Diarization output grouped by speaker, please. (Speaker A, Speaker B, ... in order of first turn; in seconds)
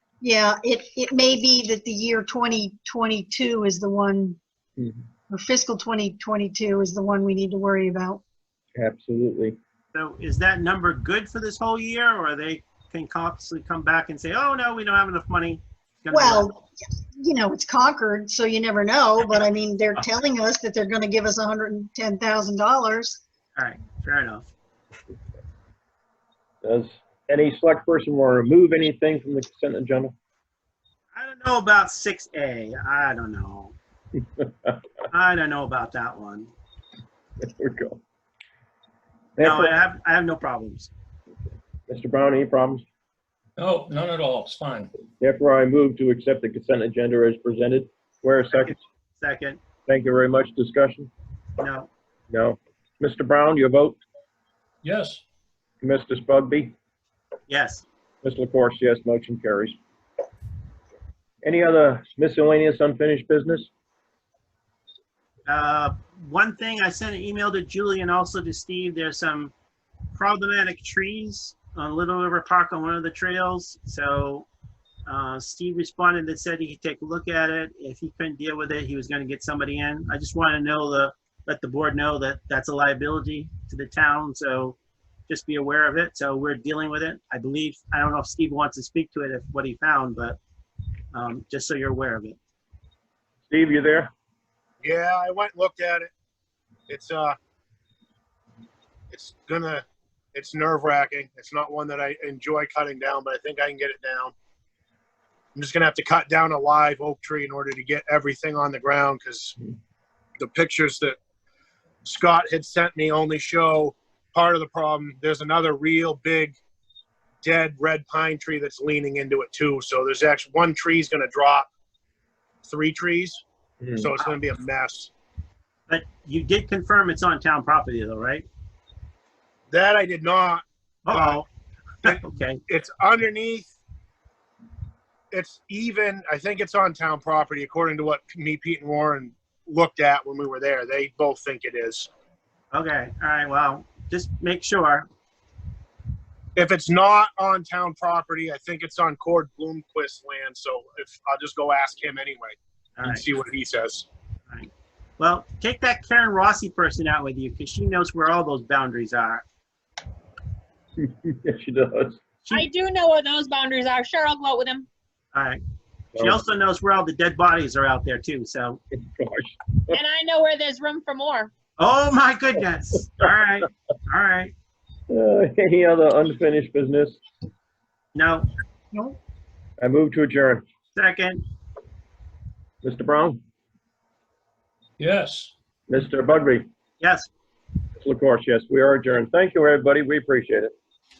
Speaker A: 0.2-4.4, 5.3-8.2, 16.1-23.2, 178.9-179.2
Speaker B: 8.7-9.6, 26.6-30.1, 37.4-38.0, 39.4-39.7, 41.9-42.8, 45.2-48.8, 49.9-51.1, 52.3-54.0, 55.8-56.7, 58.2-59.8, 61.4-63.7, 93.5-94.1, 161.0-162.2, 168.9-170.0, 175.1-177.2, 179.8-180.6, 182.8-183.4, 185.9-186.7, 188.0-190.7
Speaker C: 9.9-16.5, 23.6-24.4, 31.1-33.7, 35.1-36.5, 39.4-40.9, 48.5-49.6, 51.6-51.9, 57.5-57.8, 65.5-69.5, 70.1-74.5, 75.0-84.8, 85.3-90.4, 91.1-92.4, 125.9-128.4, 131.1-131.4, 132.0-132.6, 142.7-145.1, 153.0-153.2, 154.5-159.4, 165.3-165.6, 166.2-168.8, 171.8-174.5, 178.1-178.5, 180.9-181.4, 187.0-187.3
Speaker D: 43.6-44.9, 54.8-55.2, 185.0-185.5
Speaker E: 94.8-96.1, 96.9-97.3, 99.1-104.3, 105.5-109.5, 110.4-111.2, 112.0-116.5, 117.4-121.7, 122.6-123.4, 124.0-125.1, 129.7-131.4, 132.0-133.7, 135.3-142.1, 146.6-154.1
Speaker F: 162.5-164.9, 169.9-171.5